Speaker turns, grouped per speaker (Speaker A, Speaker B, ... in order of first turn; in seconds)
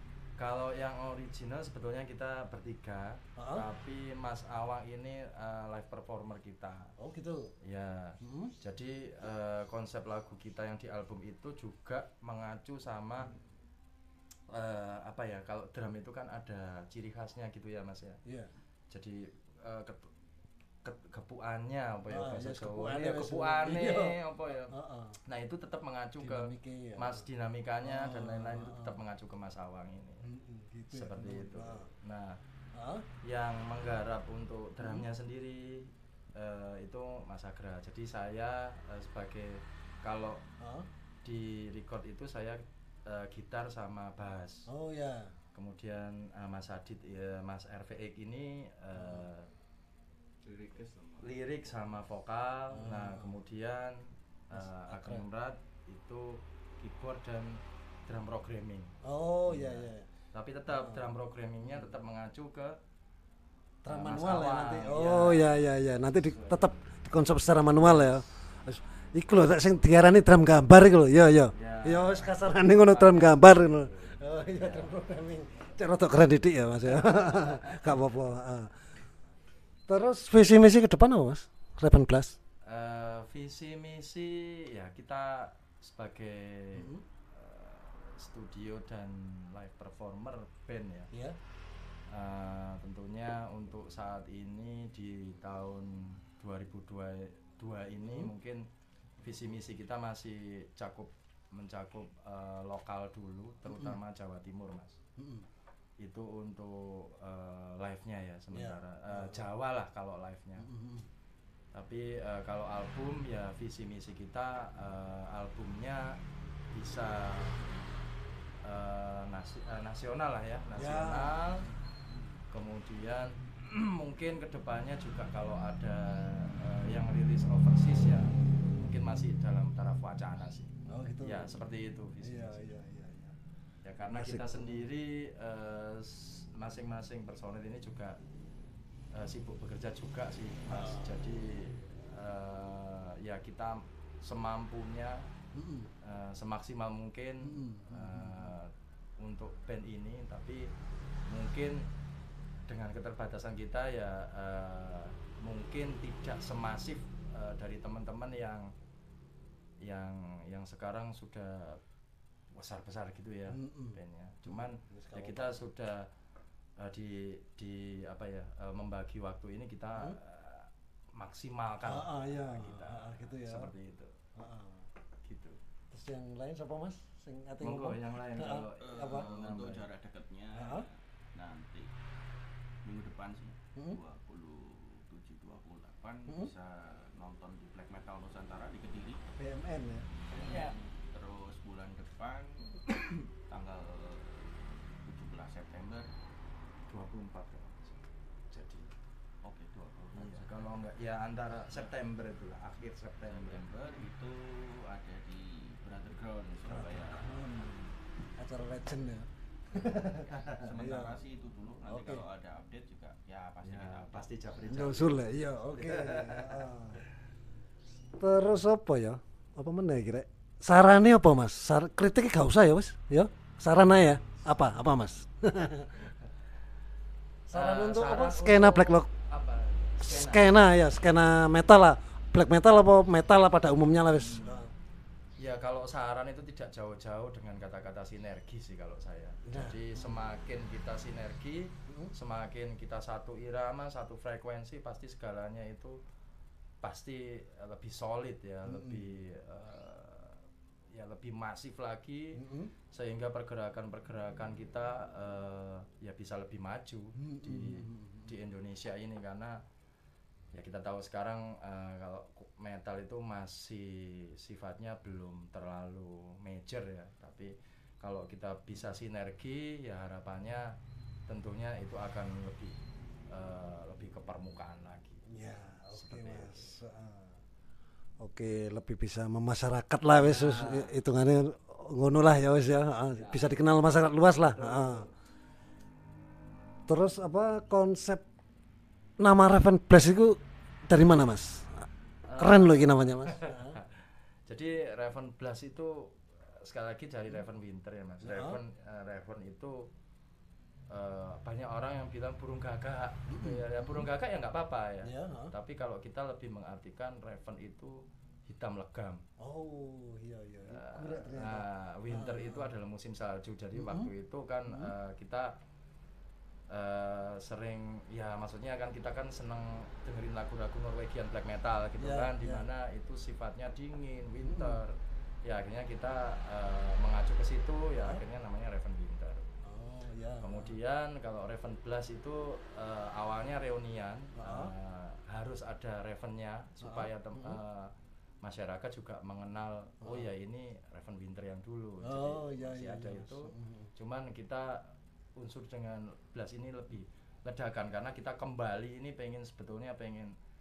Speaker A: 0.4-6.9, 7.6-13.3, 14.5-18.2, 18.9-20.1, 20.8-24.7, 25.2-30.2, 30.9-32.4, 33.2-40.4, 41.2-44.7, 45.5-49.5, 51.2-58.9, 59.5-62.8, 63.9-65.6, 66.2-66.8, 67.7-68.3, 71.5-74.9, 77.0-77.8, 82.6-91.1, 92.1-98.6, 99.2-105.0, 106.0-110.7, 111.7-116.2, 116.7-117.8, 118.6-121.6, 122.5-130.7, 131.2-132.7, 133.8-138.2, 139.1-145.3, 146.0-150.7, 151.3-151.8, 152.7-158.7, 159.8-161.8, 162.5-166.1, 166.8-174.1, 175.2-175.6, 177.6-179.9, 190.3-190.7, 196.9-198.9, 200.1-203.6, 213.6-216.7, 227.5-230.6, 235.4-246.0, 246.8-250.4, 250.9-252.4, 252.9-259.6, 260.5-270.7, 271.3-272.8, 273.3-275.2, 275.9-276.7, 280.1-280.9, 283.1-283.7, 284.4-285.1, 292.2-299.9, 300.9-309.2, 310.7-315.5, 316.7-329.4, 330.4-337.9, 338.4-350.3
Speaker B: 3.4-3.6, 7.0-7.5, 8.2-8.5, 22.1-24.2, 24.7-25.2, 26.2-27.2, 27.8-29.0, 30.2-31.9, 32.7-33.0, 34.8-35.1, 40.6-40.9, 44.7-45.3, 48.9-49.3, 52.7-53.4, 54.5-55.2, 59.0-60.1, 60.7-61.1, 61.6-61.9, 63.8-78.7, 79.9-82.4, 86.7-87.0, 98.1-98.3, 103.6-104.0, 105.2-105.5, 108.5-109.4, 110.6-111.1, 120.8-122.4, 130.8-131.5, 132.2-133.3, 134.1-134.8, 140.7-141.1, 145.5-145.9, 147.4-148.5, 163.5-165.6, 171.8-173.7, 174.4-174.9, 175.9-179.3, 180.5-180.9, 186.3-186.5, 189.4-190.7, 206.7-211.2, 211.8-212.2, 214.6-217.0, 218.2-226.0, 227.5-229.1, 230.0-234.7, 239.4-240.2, 241.9-242.1, 248.6-249.2, 252.3-252.7, 257.2-258.3, 275.3-277.4, 278.2-285.1, 286.9-288.2, 289.2-293.8, 298.2-298.6, 303.3-304.1, 305.0-305.5, 309.4-312.7, 313.7-314.1, 314.7-314.9, 322.0-322.7, 324.4-324.8, 329.6-330.8, 334.3-334.7, 336.8-337.6, 340.0-340.3, 342.0-343.9
Speaker C: 50.4-51.3, 178.8-181.9, 182.8-189.2, 190.3-196.1, 199.4-200.5, 203.2-207.4, 210.5-214.3